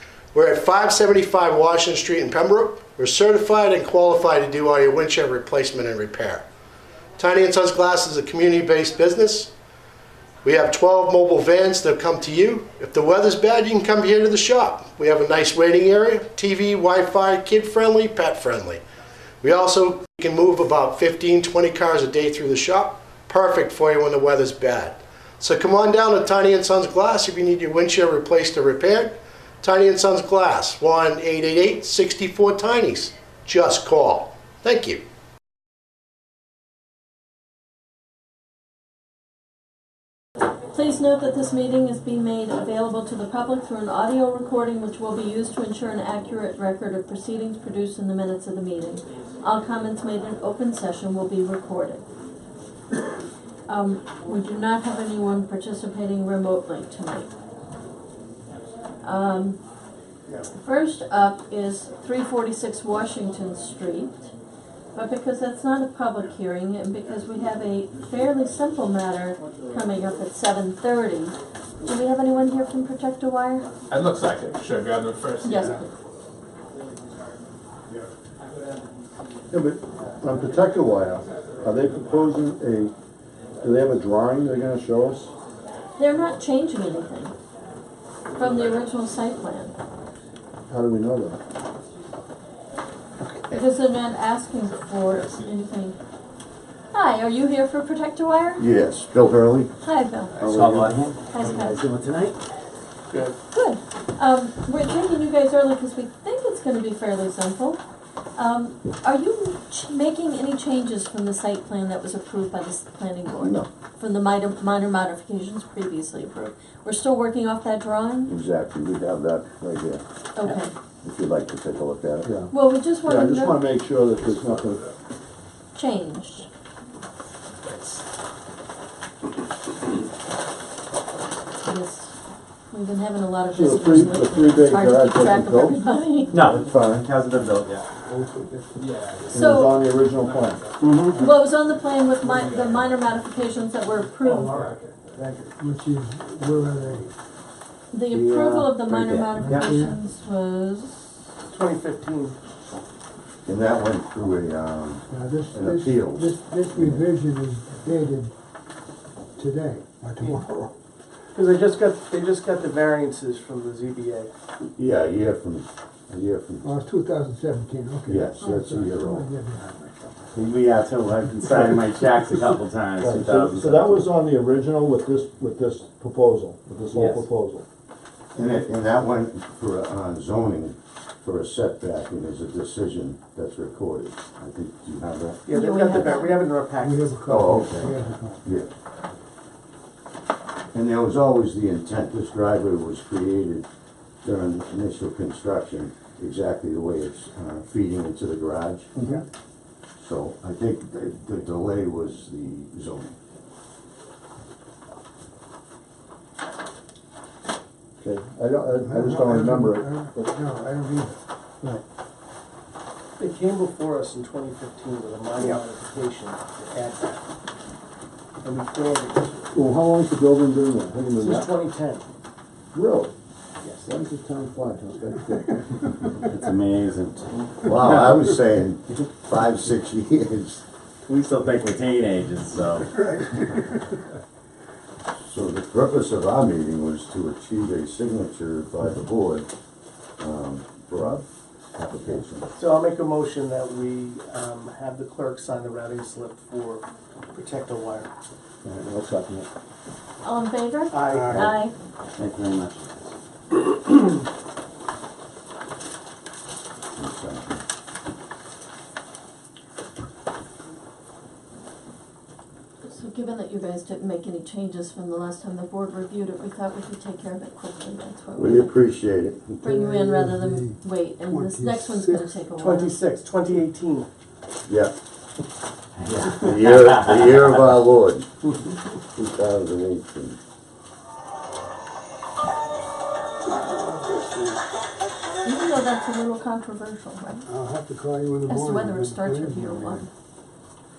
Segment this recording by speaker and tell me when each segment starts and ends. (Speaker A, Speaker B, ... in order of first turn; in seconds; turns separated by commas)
Speaker A: 0.3-6.5, Speaker A: 7.2-9.5, Speaker A: 10.4-18.8, Speaker A: 19.4-35.0, Speaker B: 40.7-52.0, Speaker B: 53.7-57.3, Speaker B: 59.0-59.6, Speaker B: 60.5-64.3, Speaker B: 64.9-73.7, Speaker C: 73.9-75.6, Speaker B: 75.4-75.9, Speaker D: 79.5-82.9, Speaker D: 83.6-85.3, Speaker B: 86.0-87.3, Speaker B: 88.3-89.7, Speaker D: 90.7-91.4, Speaker B: 93.5-95.9, Speaker B: 96.9-98.6, Speaker E: 98.6-99.7, Speaker B: 99.8-100.3, Speaker E: 100.4-100.9, Speaker F: 100.4-102.4, Speaker B: 101.3-101.8, Speaker G: 103.1-103.3, Speaker B: 103.5-107.8, Speaker B: 108.3-118.3, Speaker E: 113.3-113.7, Speaker E: 118.3-120.0, Speaker B: 120.3-120.7, Speaker E: 121.0-122.3, Speaker D: 122.2-122.5, Speaker B: 122.5-123.7, Speaker D: 123.0-124.8, Speaker B: 125.7-126.5, Speaker B: 131.6-132.1, Speaker B: 132.7-136.4, Speaker D: 133.5-135.8, Speaker F: 136.3-137.9, Speaker D: 136.3-137.1, Speaker C: 138.8-139.3, Speaker D: 139.3-140.6, Speaker B: 139.3-139.8, Speaker C: 140.2-140.8, Speaker F: 140.8-141.2, Speaker B: 141.1-144.6, Speaker C: 142.2-142.9, Speaker G: 145.2-145.5, Speaker H: 145.6-147.1, Speaker B: 147.9-151.2, Speaker F: 148.1-149.6, Speaker H: 149.3-150.0, Speaker G: 151.5-152.3, Speaker E: 153.4-157.0, Speaker H: 155.1-158.3, Speaker H: 159.3-160.7, Speaker G: 161.3-164.3, Speaker E: 164.8-166.7, Speaker H: 166.6-169.7, Speaker E: 168.1-169.3, Speaker F: 170.3-174.1, Speaker D: 173.0-177.7, Speaker F: 176.9-177.2, Speaker E: 178.3-186.1, Speaker G: 185.4-187.3, Speaker B: 185.5-186.5, Speaker H: 186.8-188.4, Speaker E: 187.3-188.7, Speaker E: 190.7-193.7, Speaker E: 194.2-198.9, Speaker D: 198.9-199.2, Speaker E: 200.0-203.1, Speaker D: 208.0-210.2, Speaker H: 208.8-211.8, Speaker G: 213.2-217.2, Speaker G: 218.4-219.4, Speaker D: 219.5-221.6, Speaker G: 221.2-222.0, Speaker D: 222.7-223.1, Speaker G: 223.6-223.9, Speaker D: 223.8-225.8, Speaker F: 226.3-228.2, Speaker E: 227.6-230.6, Speaker F: 231.1-233.2, Speaker E: 235.3-239.5, Speaker E: 240.2-242.5, Speaker G: 242.6-248.1, Speaker D: 248.6-249.5, Speaker B: 250.2-251.7, Speaker G: 250.9-251.5, Speaker H: 251.1-251.5, Speaker F: 252.1-252.9, Speaker E: 256.9-257.6, Speaker B: 262.8-268.8, Speaker E: 268.4-269.6, Speaker B: 269.6-272.9, Speaker H: 269.6-272.4, Speaker G: 272.6-274.1, Speaker E: 274.7-274.9, Speaker E: 276.2-278.3, Speaker E: 279.1-280.4, Speaker H: 283.8-284.4, Speaker B: 285.4-287.5, Speaker H: 287.4-290.0, Speaker B: 288.4-290.1